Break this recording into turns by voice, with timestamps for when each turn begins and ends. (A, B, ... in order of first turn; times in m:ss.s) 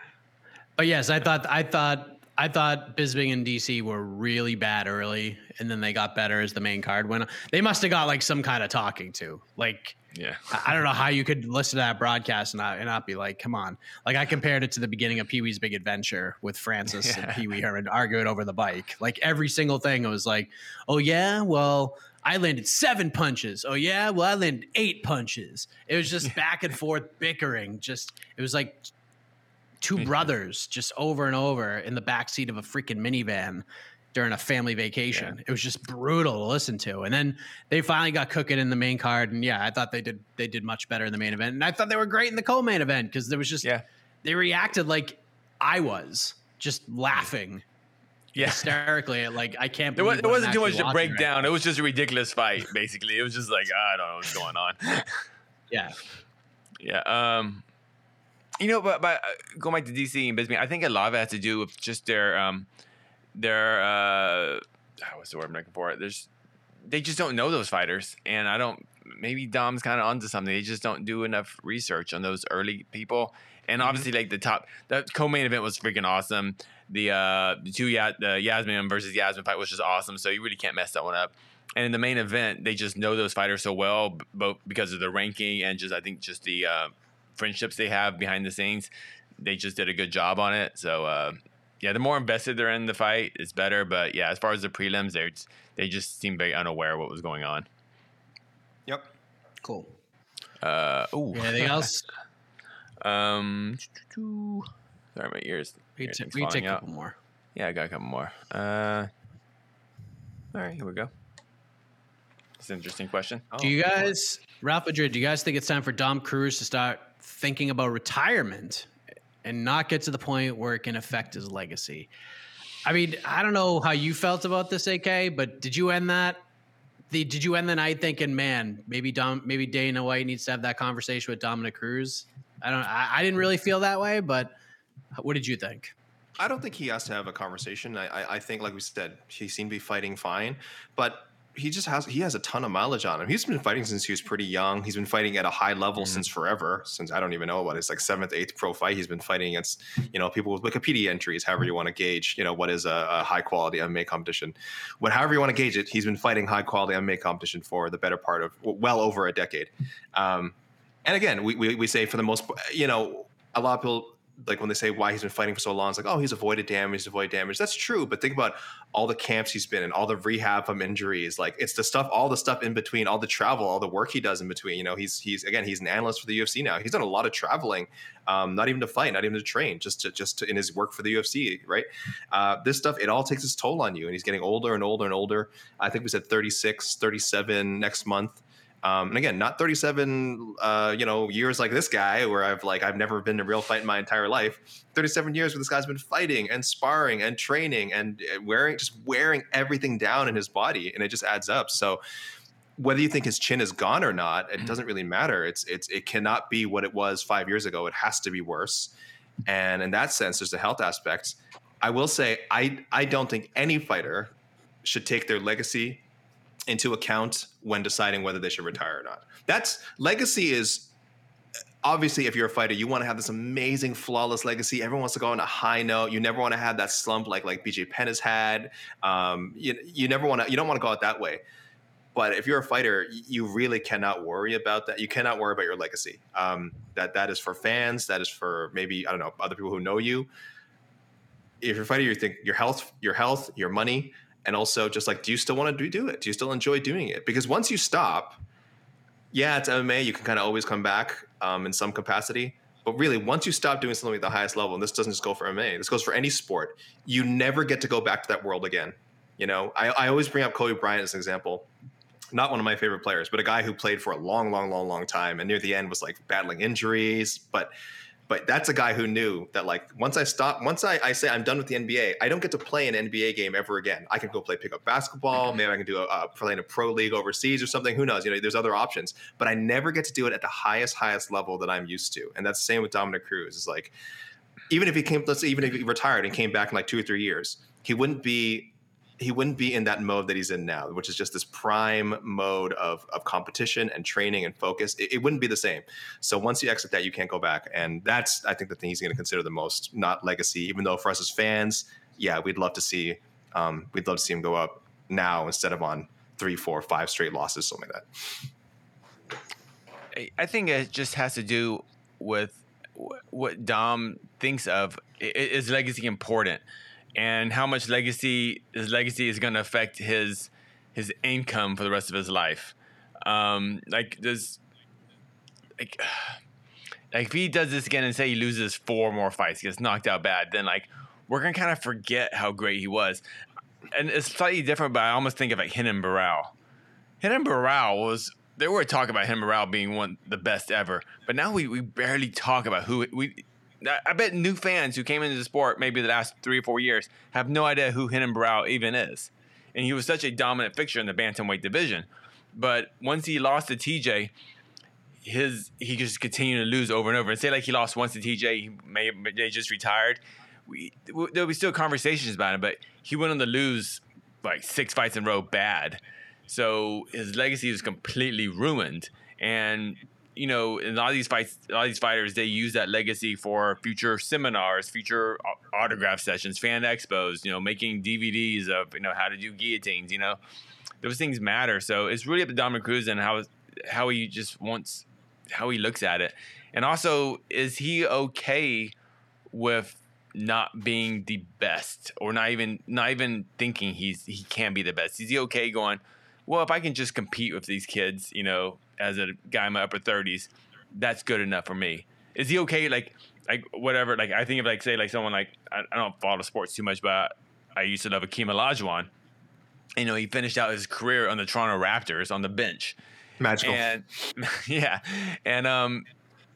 0:00.8-0:10.0 A
0:10.1-0:10.8 B
0:10.5-0:28.9 A
0:16.9-0:17.4 B
0:29.8-0:43.7 A
0:35.1-0:35.4 B
0:44.2-0:47.6 A
0:48.3-0:51.5 A
0:48.4-0:48.8 B
0:50.0-0:55.3 B
0:55.7-0:56.0 A
0:56.8-0:57.6 B
0:58.6-1:02.7 B
1:03.3-1:06.3 B
1:06.8-1:37.6 B
1:13.8-1:14.0 C
1:39.6-1:39.9 A
1:40.6-1:41.9 B
1:41.3-1:42.0 A
1:43.0-1:46.8 B
1:46.0-1:47.2 A
1:47.5-1:49.1 B
1:50.5-1:51.1 B
1:52.6-1:53.5 B
1:53.5-1:54.1 C
1:53.6-1:58.9 A
1:59.4-2:02.1 A
2:02.8-2:06.4 A
2:07.1-2:14.5 A
2:15.1-2:15.9 A
2:16.4-3:22.0 C
2:26.0-2:26.2 B
3:22.8-3:28.9 C
3:29.4-3:34.3 C
3:34.8-3:36.0 C
3:36.7-3:40.9 C
3:41.8-3:51.4 C
3:52.1-4:00.3 C
4:01.6-4:08.4 C
4:09.3-4:21.7 C
4:22.3-4:27.7 C
4:28.3-4:43.9 C
4:44.7-5:08.4 C
5:10.1-5:16.6 B
5:17.2-5:24.6 B
5:25.8-5:26.4 B
5:27.1-5:33.2 B
5:33.9-5:36.5 B
5:37.2-5:54.3 B
5:55.2-6:20.4 B
6:21.0-6:28.9 B
6:29.5-6:49.1 B
6:50.0-6:53.0 B
6:53.4-6:53.8 C
6:53.6-6:56.0 B